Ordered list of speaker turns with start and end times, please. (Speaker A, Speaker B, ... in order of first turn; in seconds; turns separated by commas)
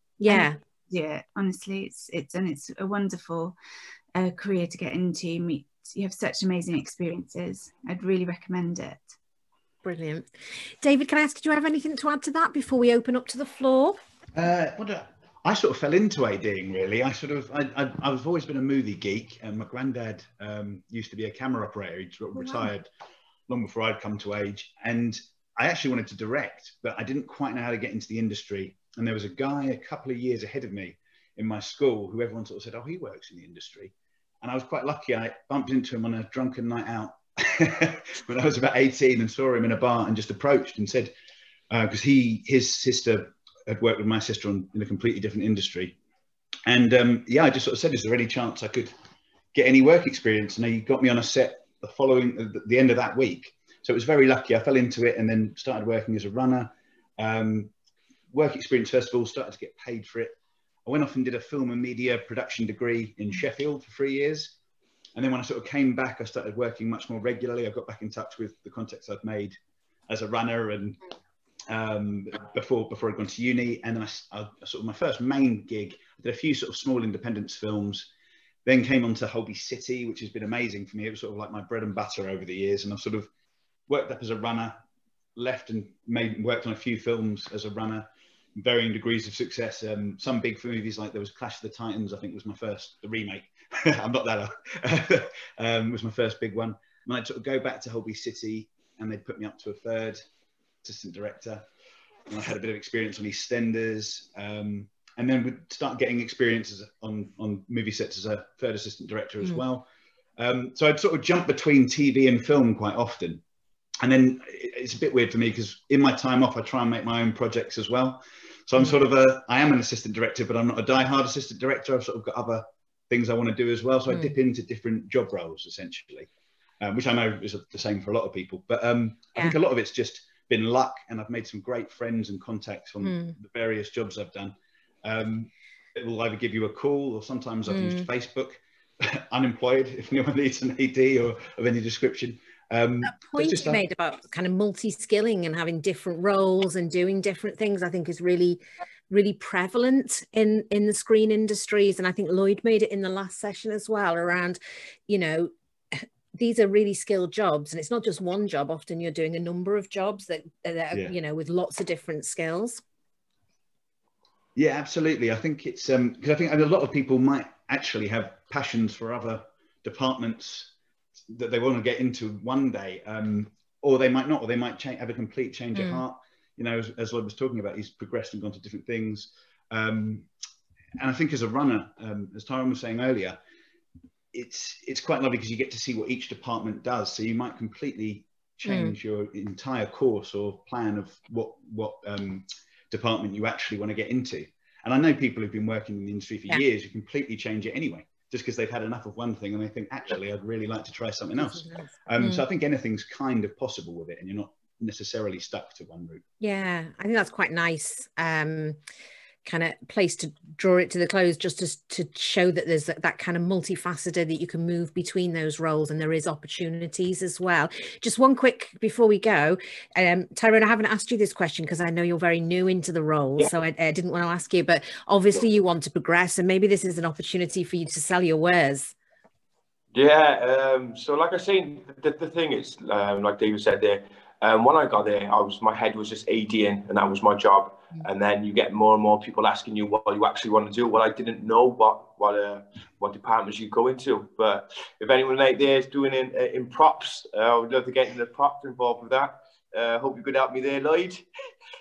Speaker A: 0.2-0.6, Speaker B: 0.3-3.5, Speaker B: 4.1-9.1, Speaker A: 9.8-10.3, Speaker A: 10.8-14.0, Speaker C: 14.3-22.9, Speaker C: 23.5-41.1, Speaker C: 41.7-46.0, Speaker C: 46.6-49.0, Speaker C: 49.5-57.7, Speaker C: 58.3-64.5, Speaker C: 65.1-69.6, Speaker C: 70.1-71.0, Speaker C: 71.7-78.1, Speaker C: 78.6-83.3, Speaker C: 83.9-84.8, Speaker C: 85.4-100.2, Speaker C: 100.8-101.7, Speaker C: 102.3-109.9, Speaker C: 110.4-113.4, Speaker C: 114.0-126.3, Speaker A: 124.1-124.3, Speaker C: 126.8-143.8, Speaker A: 133.0-133.4, Speaker A: 137.7-138.1, Speaker A: 143.0-162.8, Speaker C: 164.6-170.7, Speaker C: 171.3-180.3, Speaker A: 175.7-176.0, Speaker C: 181.0-183.4, Speaker C: 184.3-206.2, Speaker A: 188.6-188.9, Speaker A: 201.4-202.4, Speaker A: 206.4-208.8, Speaker A: 209.4-228.9, Speaker D: 229.9-251.2